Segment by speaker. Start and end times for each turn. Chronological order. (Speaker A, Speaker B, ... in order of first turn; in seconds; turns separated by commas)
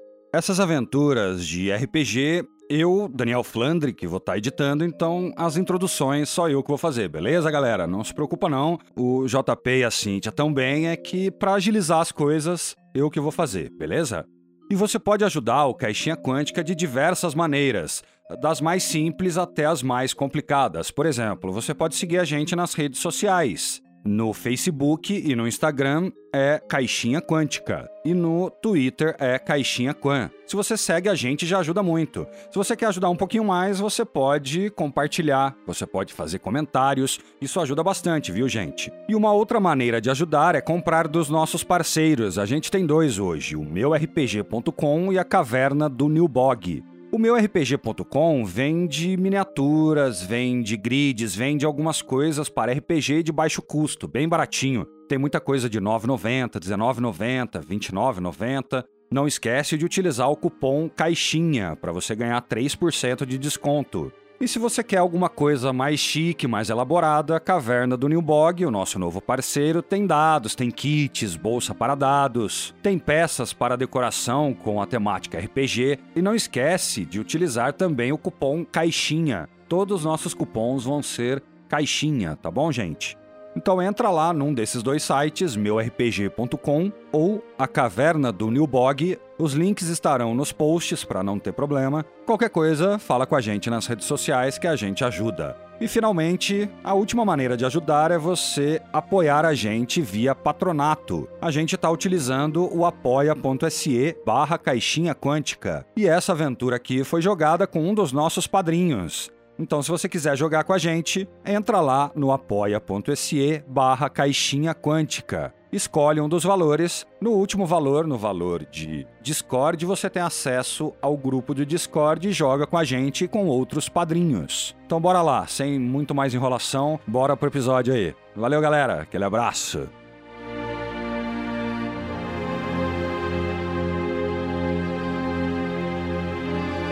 Speaker A: 0.3-129.9